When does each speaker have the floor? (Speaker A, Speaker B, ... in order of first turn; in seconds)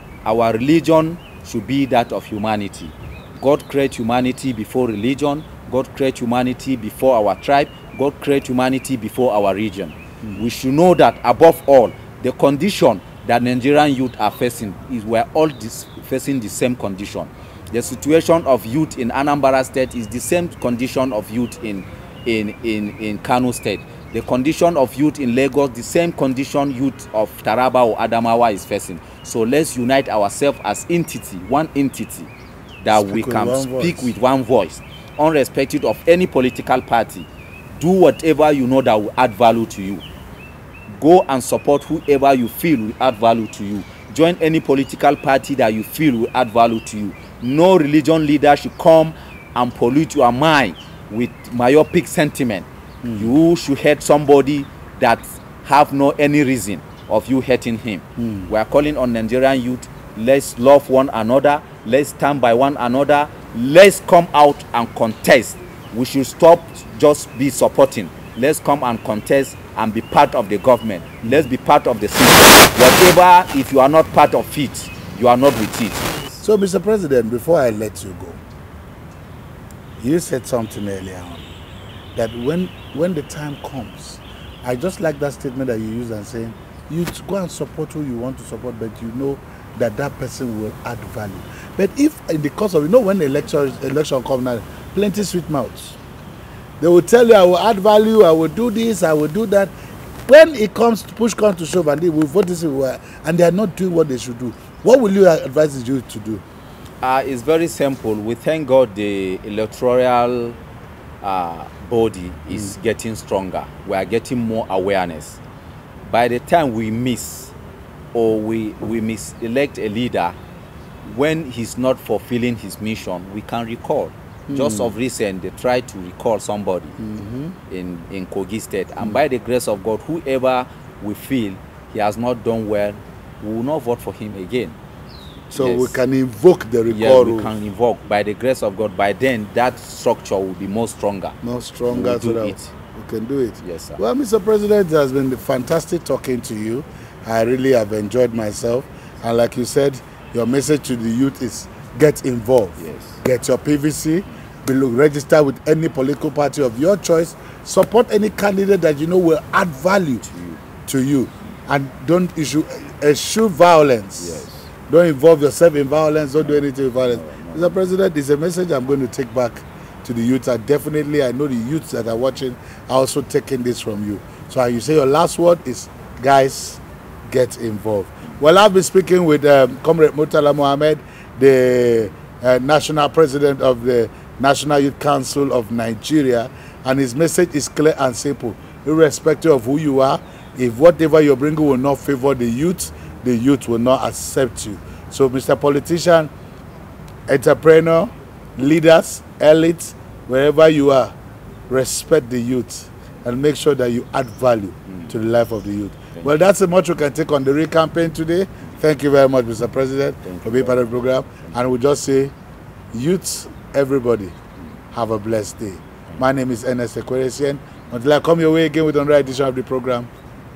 Speaker A: 0.2-40.0, 40.9-76.1, 107.0-110.6, 111.2-115.4, 116.0-117.5, 118.1-120.4, 121.0-127.0, 127.7-134.8, 135.5-136.0, 136.9-142.7, 143.6-144.0, 152.8-153.2, 160.2-160.6, 164.2-164.7, 166.4-167.8, 204.9-205.1, 210.2-210.8
Speaker B: 32.9-34.1, 53.0-53.3, 58.2-58.5, 76.4-78.4, 80.0-81.5, 82.1-96.0, 96.8-99.7, 100.3-106.4, 124.5-124.9, 127.0-127.5, 135.5-137.5, 141.4-160.2, 160.8-196.3, 197.2-201.1, 201.7-212.3, 212.9-214.3, 214.9-220.1